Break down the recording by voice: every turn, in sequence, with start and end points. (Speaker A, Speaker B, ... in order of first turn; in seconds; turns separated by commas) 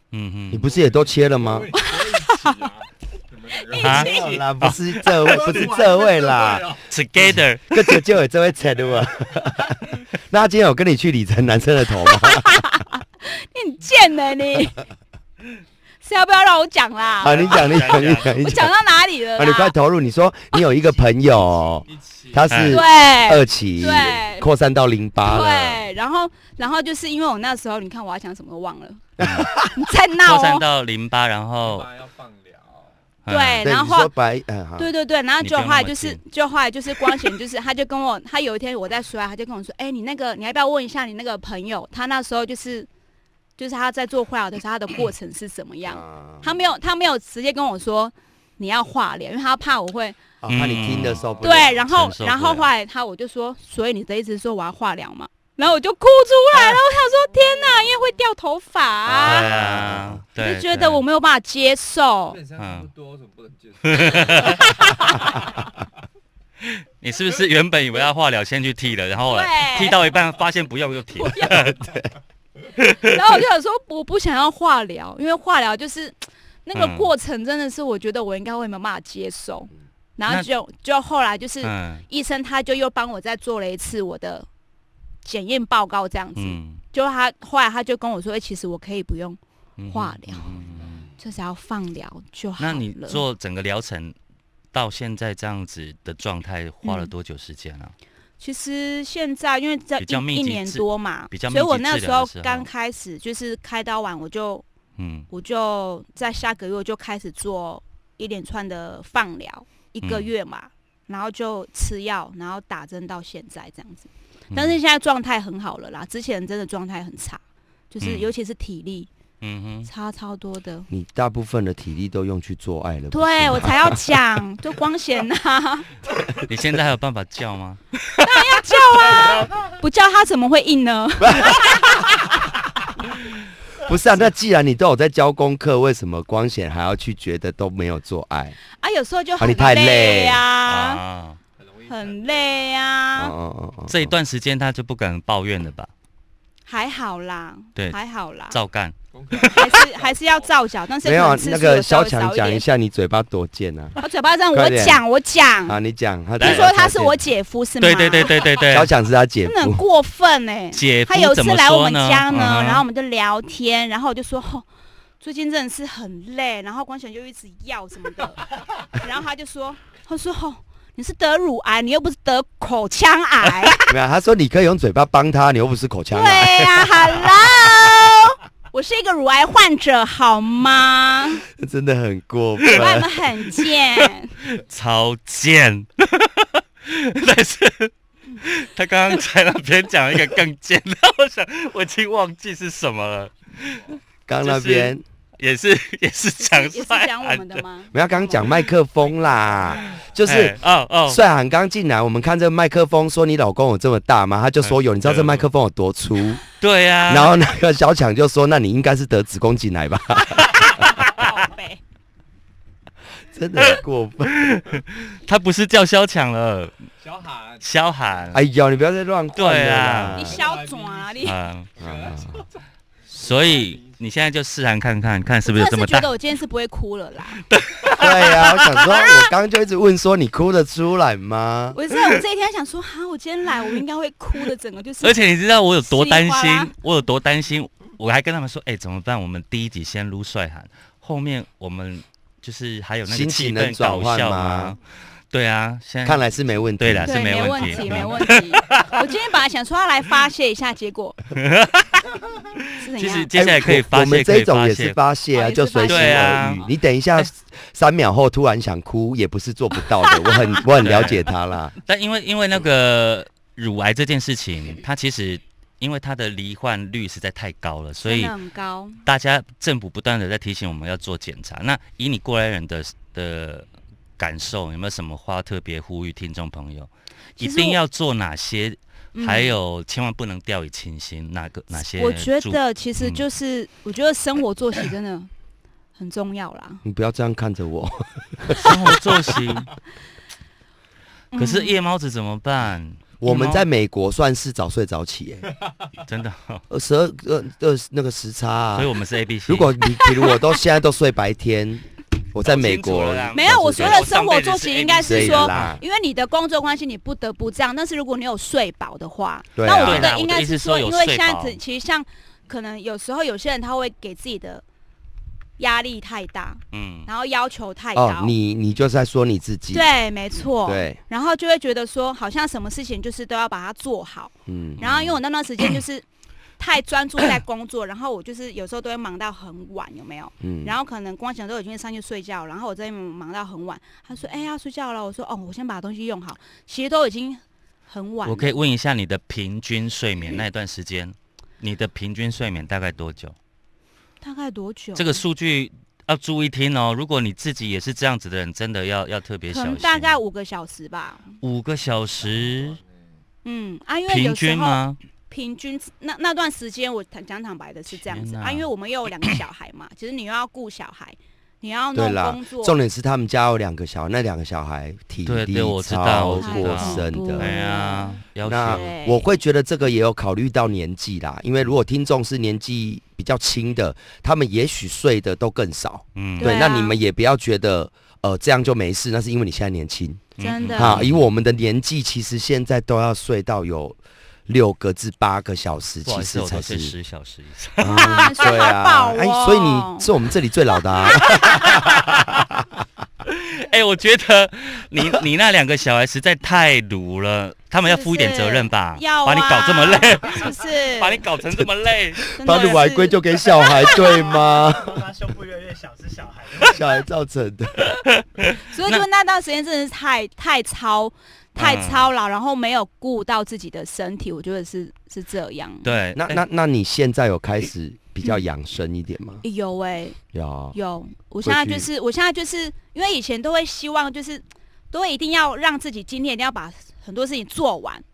Speaker A: 0.1-0.7, Speaker B: 0.5-1.7, Speaker C: 0.6-6.9, Speaker D: 1.8-2.6, Speaker D: 3.7-4.0, Speaker A: 3.8-4.8, Speaker B: 3.8-6.8, Speaker A: 6.9-8.0, Speaker B: 7.7-12.6, Speaker D: 12.1-14.8, Speaker D: 16.0-19.7, Speaker B: 17.2-18.7, Speaker A: 17.3-18.5, Speaker B: 19.4-25.9, Speaker C: 21.9-22.6, Speaker A: 22.5-22.8, Speaker D: 22.7-24.5, Speaker C: 23.3-23.6, Speaker D: 25.2-30.6, Speaker B: 29.2-29.7, Speaker A: 29.2-29.5, Speaker A: 30.2-31.9, Speaker C: 31.6-33.0, Speaker A: 33.2-33.7, Speaker D: 33.3-34.1, Speaker B: 33.6-34.9, Speaker D: 34.8-42.9, Speaker A: 35.4-36.2, Speaker D: 43.6-50.2, Speaker B: 45.9-46.5, Speaker B: 50.4-51.9, Speaker A: 50.5-52.7, Speaker D: 51.4-59.5, Speaker B: 59.1-60.2, Speaker A: 59.2-61.0, Speaker D: 60.4-62.4, Speaker C: 62.3-65.6, Speaker A: 62.6-62.9, Speaker A: 63.9-64.7, Speaker D: 64.5-65.5, Speaker A: 66.6-71.9, Speaker D: 69.3-70.0, Speaker D: 71.2-71.8, Speaker D: 72.8-76.2, Speaker A: 72.8-73.2, Speaker D: 76.7-84.5, Speaker A: 76.8-77.1, Speaker A: 81.6-82.0, Speaker D: 85.2-89.4, Speaker A: 86.4-86.8, Speaker A: 89.8-91.1, Speaker D: 89.9-90.5, Speaker D: 91.2-93.2, Speaker A: 92.6-94.2, Speaker A: 94.7-98.0, Speaker D: 96.8-97.1, Speaker D: 98.4-104.7, Speaker A: 100.0-102.7, Speaker A: 105.0-105.3, Speaker D: 105.3-119.1, Speaker A: 110.0-110.3, Speaker A: 114.5-114.8, Speaker A: 118.0-118.3, Speaker A: 119.4-119.9, Speaker D: 119.9-120.9, Speaker B: 120.9-124.2, Speaker D: 123.1-125.9, Speaker A: 126.4-128.4, Speaker D: 128.2-132.6, Speaker B: 131.2-131.8, Speaker B: 133.8-138.6, Speaker D: 138.8-141.0, Speaker B: 139.4-140.4, Speaker A: 140.7-141.4, Speaker C: 141.6-142.9, Speaker D: 141.9-143.3, Speaker B: 143.2-144.1, Speaker A: 143.9-145.9, Speaker D: 146.7-148.6, Speaker A: 148.5-149.6, Speaker C: 149.1-150.6, Speaker D: 149.5-152.7, Speaker B: 151.0-154.0, Speaker D: 154.0-155.8, Speaker B: 154.5-155.0, Speaker B: 155.7-157.2, Speaker D: 156.4-158.5, Speaker A: 156.4-156.7, Speaker A: 157.8-158.9, Speaker B: 158.7-159.8, Speaker D: 159.4-164.7, Speaker A: 160.7-162.8, Speaker D: 165.2-173.8, Speaker B: 173.9-177.7, Speaker D: 176.1-181.4, Speaker B: 181.5-183.1, Speaker D: 182.7-184.3, Speaker A: 183.8-193.9, Speaker B: 194.3-195.0, Speaker A: 194.4-197.6, Speaker D: 196.4-198.7, Speaker B: 197.9-200.6, Speaker C: 199.2-200.0, Speaker A: 200.3-201.2, Speaker B: 201.1-206.4, Speaker A: 204.6-205.5, Speaker A: 206.6-207.4, Speaker B: 207.1-210.7, Speaker D: 211.0-211.8, Speaker B: 213.3-214.5, Speaker A: 213.6-216.7, Speaker C: 217.0-217.7, Speaker A: 217.6-218.4, Speaker B: 218.3-220.4, Speaker A: 219.3-220.2, Speaker D: 220.2-221.4, Speaker C: 220.2-224.0, Speaker A: 221.2-221.7, Speaker B: 221.8-222.4, Speaker A: 223.1-226.1, Speaker D: 225.4-227.4, Speaker A: 227.5-229.3, Speaker B: 227.9-231.8, Speaker D: 231.7-235.2, Speaker A: 235.0-244.8, Speaker D: 235.8-236.7, Speaker B: 243.1-244.8, Speaker A: 245.3-246.3, Speaker B: 246.0-248.1, Speaker A: 246.8-249.0, Speaker D: 247.1-251.2, Speaker A: 251.3-255.0, Speaker D: 252.8-253.3, Speaker B: 253.3-261.8, Speaker D: 255.3-256.7, Speaker A: 255.9-257.3, Speaker D: 260.1-260.6, Speaker A: 260.7-261.3, Speaker A: 261.9-268.3, Speaker D: 268.1-269.0, Speaker A: 269.1-273.7, Speaker A: 274.2-283.2, Speaker D: 277.4-277.8, Speaker D: 279.1-279.6, Speaker D: 281.7-285.3, Speaker D: 286.0-286.8, Speaker B: 286.8-289.0, Speaker A: 288.6-289.7, Speaker D: 291.3-291.8, Speaker A: 291.4-293.7, Speaker B: 293.2-295.5, Speaker A: 296.1-296.6, Speaker B: 296.7-304.1, Speaker A: 298.8-299.7, Speaker A: 302.4-305.8, Speaker D: 303.3-314.6, Speaker B: 305.1-305.8, Speaker B: 309.6-310.1, Speaker A: 309.7-311.6, Speaker D: 315.6-318.3, Speaker A: 316.7-317.1, Speaker B: 317.9-319.9, Speaker D: 319.7-326.1, Speaker B: 320.6-321.0, Speaker B: 324.5-325.0, Speaker D: 326.6-338.6, Speaker B: 330.4-330.8, Speaker A: 338.2-343.4, Speaker D: 344.2-345.2, Speaker A: 345.0-350.2, Speaker D: 349.5-351.3, Speaker A: 351.4-352.8, Speaker C: 352.2-353.2, Speaker D: 353.4-362.8, Speaker A: 354.1-355.0, Speaker A: 357.9-358.7, Speaker B: 361.9-367.5, Speaker A: 365.2-368.8, Speaker D: 366.4-369.2, Speaker B: 368.4-386.9, Speaker A: 376.2-376.6, Speaker D: 376.4-377.0, Speaker D: 380.4-381.0, Speaker A: 380.4-381.2, Speaker A: 386.1-388.4, Speaker B: 387.8-392.6, Speaker D: 387.8-390.1, Speaker D: 390.7-391.4, Speaker A: 391.3-392.3, Speaker A: 393.3-402.3, Speaker D: 397.8-401.2, Speaker B: 402.3-405.1, Speaker D: 402.4-404.4, Speaker E: 404.7-407.0, Speaker B: 406.6-407.9, Speaker A: 407.9-409.1, Speaker D: 408.7-415.9, Speaker A: 411.6-412.1, Speaker A: 415.8-416.4, Speaker B: 416.1-419.4, Speaker D: 419.4-420.2, Speaker B: 420.3-420.8, Speaker D: 420.7-428.0, Speaker B: 421.4-421.9